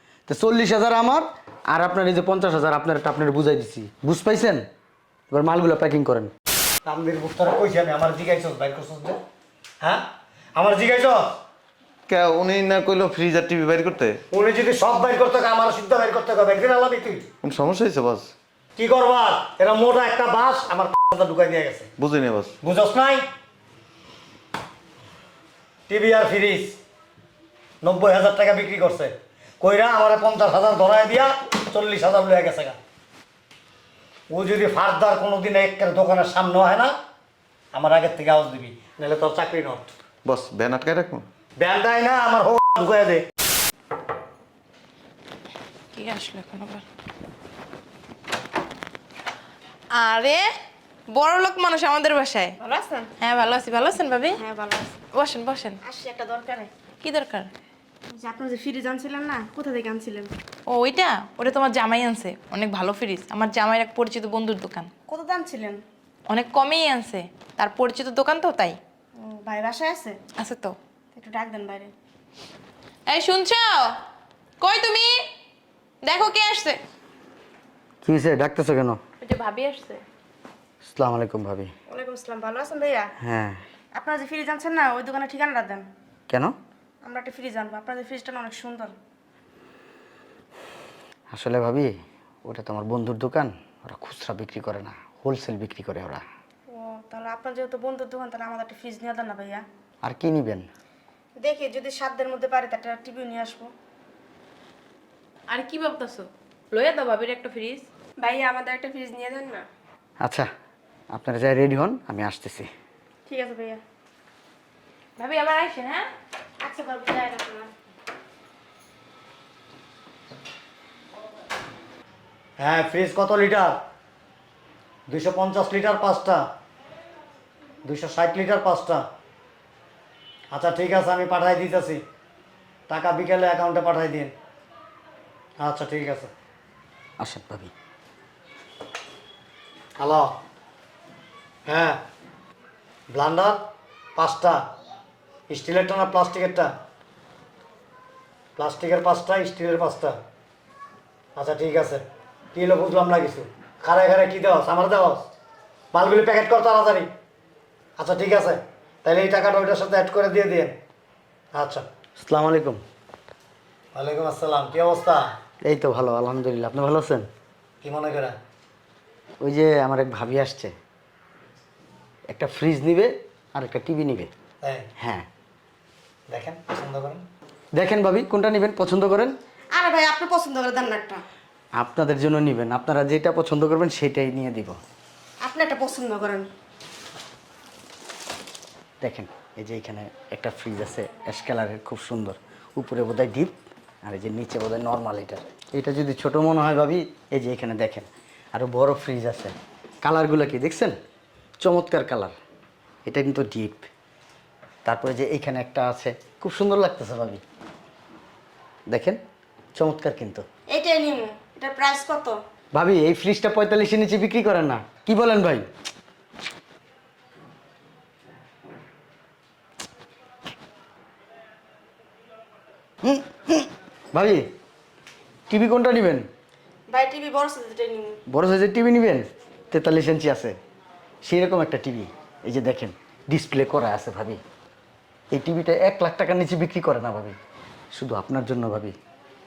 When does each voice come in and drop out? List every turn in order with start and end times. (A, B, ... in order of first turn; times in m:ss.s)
0:00.3-0:04.6 A
0:05.3-0:06.3 A
0:06.8-0:09.2 B
0:10.5-0:11.2 B
0:12.1-0:14.2 C
0:14.3-0:17.2 B
0:17.4-0:18.3 C
0:18.8-0:21.9 B
0:22.0-0:22.5 C
0:22.6-0:23.2 B
0:25.9-0:26.8 B
0:27.8-0:32.8 B
0:34.3-0:36.9 B
0:37.7-0:39.9 B
0:40.2-0:41.2 C
0:41.6-0:43.2 B
0:45.9-0:46.8 D
0:49.9-0:50.4 D
0:51.1-0:52.6 D
0:52.6-0:53.1 E
0:53.2-0:54.4 D
0:54.4-0:55.0 E
0:55.1-0:55.8 D
0:55.8-0:56.7 E
0:57.0-0:57.5 D
0:58.1-1:00.3 E
1:00.7-1:04.9 D
1:05.1-1:05.8 E
1:06.3-1:08.8 D
1:09.2-1:10.2 E
1:10.4-1:10.8 D
1:11.1-1:11.9 E
1:13.1-1:14.0 D
1:14.6-1:15.3 D
1:16.0-1:16.8 D
1:18.0-1:19.0 A
1:19.2-1:20.0 D
1:20.8-1:21.7 A
1:21.9-1:23.1 E
1:23.2-1:23.6 A
1:23.9-1:25.8 E
1:27.0-1:28.9 E
1:31.3-1:36.2 A
1:36.7-1:39.6 E
1:40.0-1:40.7 A
1:41.4-1:43.7 E
1:45.5-1:47.8 D
1:48.2-1:49.7 E
1:50.2-1:50.5 A
1:51.1-1:52.7 A
1:53.2-1:53.8 E
1:55.2-1:56.1 D
1:56.6-1:57.7 E
2:02.6-2:03.8 B
2:05.1-2:06.4 B
2:07.8-2:09.0 B
2:10.5-2:12.0 B
2:12.9-2:14.3 B
2:15.6-2:16.3 B
2:17.2-2:17.7 A
2:20.0-2:20.3 B
2:21.7-2:22.0 B
2:23.1-2:23.6 B
2:24.2-2:24.6 B
2:25.5-2:26.7 B
2:28.6-2:30.2 B
2:31.4-2:35.3 B
2:35.9-2:37.1 B
2:38.0-2:40.8 B
2:41.5-2:41.9 B
2:42.2-2:42.8 A
2:43.9-2:45.3 B
2:45.6-2:47.3 A
2:47.8-2:48.3 B
2:49.4-2:50.7 A
2:52.3-2:54.3 A
2:54.6-2:54.9 B
2:55.0-2:55.3 A
2:56.3-2:57.2 B
2:57.8-2:59.4 A
2:59.7-3:01.2 E
3:01.8-3:04.8 A
3:05.4-3:06.5 E
3:09.0-3:21.0 A
3:21.6-3:22.4 A
3:23.0-3:23.9 A
3:24.8-3:27.4 A
3:28.9-3:29.2 A
3:29.7-3:30.4 A
3:30.7-3:32.4 E
3:32.7-3:35.7 A
3:43.0-3:44.5 A
3:45.5-3:46.3 A
3:46.9-3:48.2 E
3:48.3-3:50.6 A
3:51.2-3:54.4 A
3:55.3-3:57.4 A
3:57.9-3:59.0 A